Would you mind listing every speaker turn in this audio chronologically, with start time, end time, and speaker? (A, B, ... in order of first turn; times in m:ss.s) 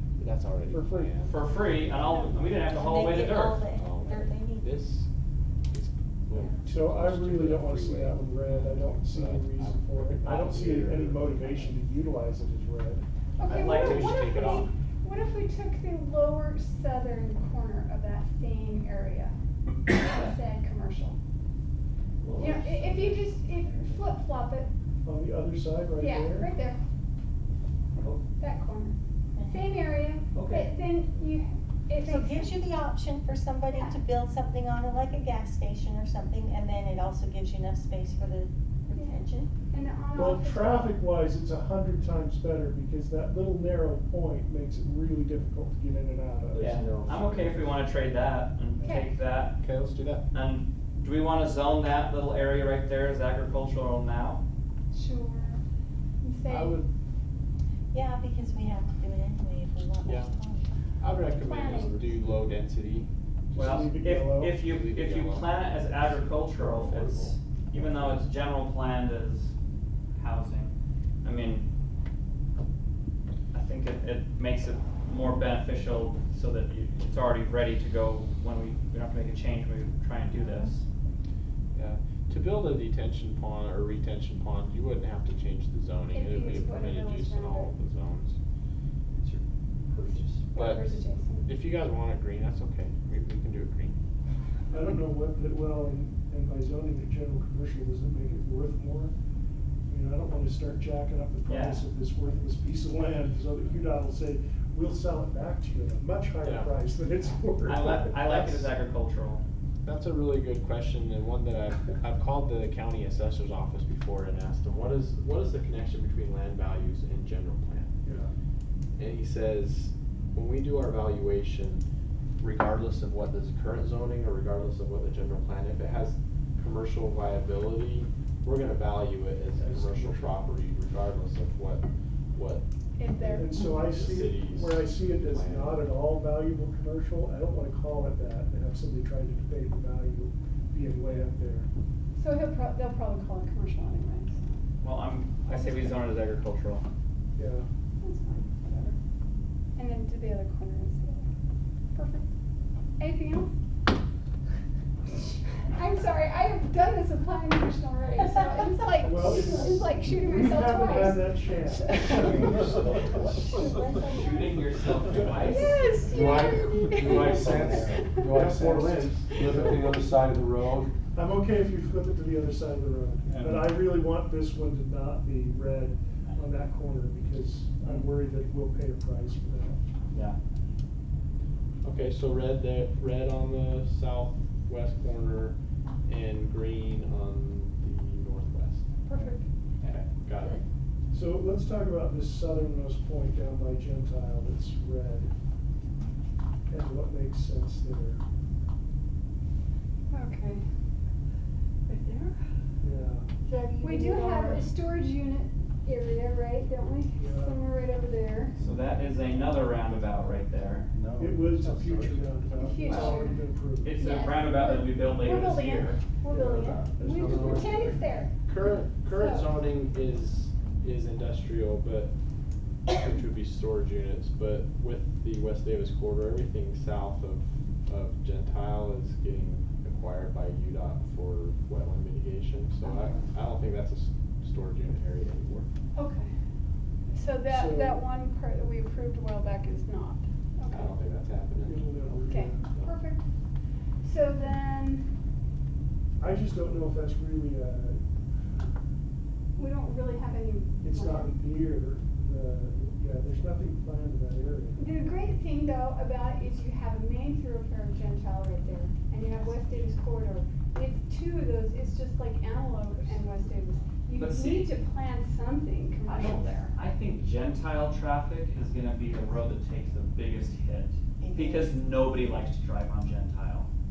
0:00.2-0:01.4 A
0:00.7-0:01.1 B
0:01.2-0:03.6 C
0:02.1-0:04.7 D
0:03.7-0:05.1 A
0:05.7-0:11.8 A
0:06.3-0:06.7 D
0:06.6-0:13.0 B
0:10.2-0:10.8 C
0:13.4-0:19.3 E
0:13.4-0:14.7 A
0:13.5-0:14.6 C
0:19.9-0:21.2 E
0:22.2-0:24.0 C
0:22.4-0:24.7 E
0:25.0-0:26.5 B
0:26.0-0:26.8 E
0:28.0-0:28.2 C
0:28.4-0:28.9 E
0:29.4-0:29.7 D
0:29.5-0:32.6 E
0:30.3-0:30.7 C
0:32.0-0:39.5 D
0:33.7-0:34.0 E
0:38.9-0:41.0 E
0:40.1-0:46.7 B
0:46.5-0:47.7 A
0:46.6-0:49.6 C
0:48.8-0:49.1 E
0:49.6-0:50.3 A
0:50.3-0:54.4 C
0:54.9-0:55.6 E
0:56.2-0:56.8 E
0:56.5-0:56.8 A
0:57.9-1:00.7 D
1:00.0-1:00.3 A
1:01.0-1:03.1 A
1:01.3-1:02.0 E
1:03.5-1:04.6 B
1:03.5-1:09.5 C
1:04.6-1:07.3 A
1:10.2-1:11.6 C
1:13.5-1:20.8 C
1:21.7-1:28.4 A
1:26.1-1:27.7 E
1:29.1-1:29.4 C
1:29.9-1:30.3 C
1:30.0-1:31.5 E
1:30.5-1:33.9 A
1:34.7-1:39.1 B
1:39.9-1:48.6 B
1:41.5-1:41.8 C
1:46.4-1:46.7 A
1:47.6-1:49.4 C
1:49.8-1:57.9 A
1:58.0-1:58.3 B
1:59.0-2:01.8 A
2:02.4-2:15.9 A
2:09.6-2:10.3 B
2:13.0-2:13.6 E
2:13.2-2:21.7 B
2:22.2-2:24.4 E
2:24.8-2:26.8 C
2:25.5-2:26.0 E
2:27.3-2:27.7 B
2:28.0-2:29.0 E
2:29.8-2:31.2 E
2:31.9-2:32.2 E
2:33.0-2:33.5 E
2:35.6-2:42.8 E
2:38.2-2:39.4 D
2:39.0-2:43.4 B
2:43.1-2:44.7 D
2:44.1-2:45.8 C
2:45.3-2:48.3 E
2:46.1-2:50.9 F
2:46.6-2:47.9 D
2:47.0-2:49.9 B
2:51.1-2:59.8 B
2:53.3-2:53.7 F
3:00.1-3:00.4 C
3:01.8-3:08.8 A
3:09.0-3:09.4 E
3:09.8-3:10.0 C
3:09.9-3:10.6 A
3:10.4-3:10.6 D
3:11.1-3:15.3 B
3:16.7-3:18.2 B
3:20.1-3:20.6 E
3:22.8-3:23.3 B
3:23.5-3:24.6 D
3:23.8-3:28.6 E
3:27.2-3:27.6 B
3:28.6-3:30.9 C
3:30.9-3:32.3 F
3:31.2-3:34.0 B
3:32.5-3:33.4 E
3:33.8-3:36.0 C
3:34.0-3:38.3 E
3:36.3-3:38.1 F
3:37.0-3:37.8 B
3:38.4-3:42.1 A
3:39.0-3:39.5 E
3:42.9-3:55.7 A
3:55.9-3:56.3 E
3:57.1-4:00.9 E
3:57.5-3:58.0 B
4:00.7-4:03.0 A
4:01.6-4:02.6 B
4:02.3-4:03.2 E
4:04.0-4:05.1 E
4:06.2-4:08.0 B
4:09.6-4:11.4 E
4:10.8-4:14.8 B
4:14.8-4:26.7 E
4:24.2-4:24.7 C
4:26.0-4:33.7 C
4:31.2-4:31.7 D